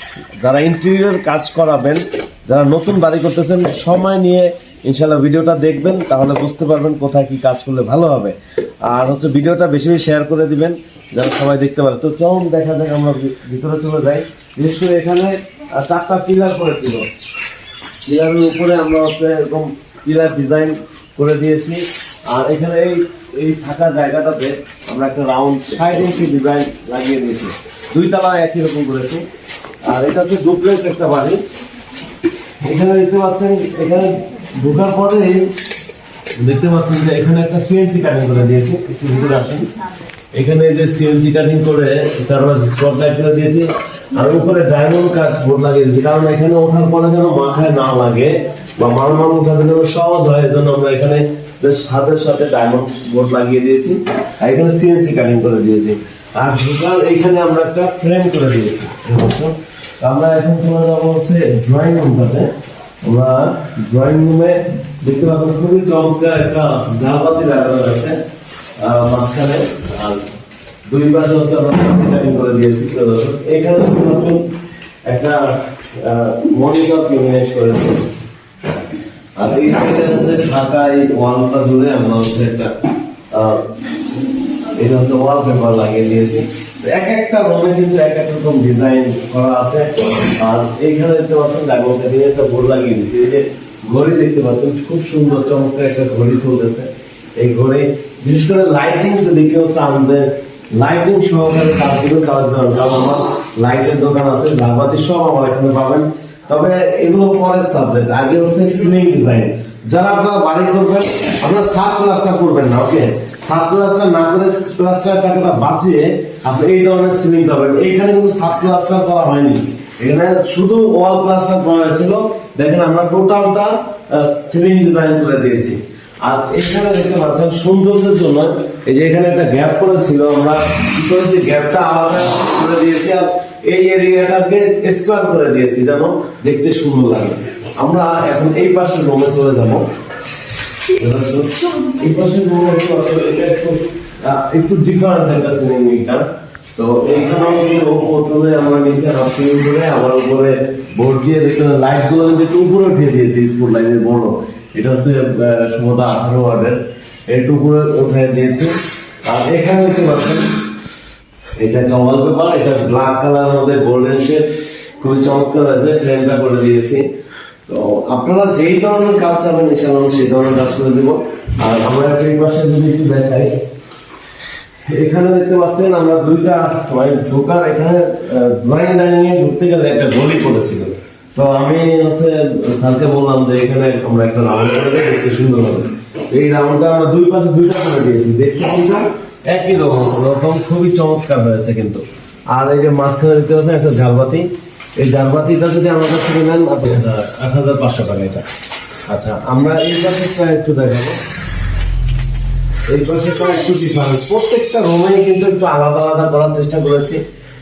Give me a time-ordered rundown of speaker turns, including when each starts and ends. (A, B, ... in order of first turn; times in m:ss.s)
0:00.4-0:17.1 A
0:18.1-0:29.3 A
0:29.9-0:31.4 A
0:32.6-0:35.5 A
0:36.4-0:39.8 A
0:40.3-1:02.5 A
1:03.0-1:08.2 A
1:08.8-1:10.3 A
1:10.9-1:14.4 A
1:15.1-1:18.1 A
1:19.4-1:22.7 A
1:23.3-1:23.7 A
1:24.7-2:19.9 A
2:21.0-2:26.2 A
2:26.8-2:40.5 A
2:41.6-2:44.5 A
2:45.0-2:47.1 A
2:47.7-2:53.6 A
2:54.9-3:18.5 A
3:19.1-3:21.2 A
3:22.9-3:27.2 A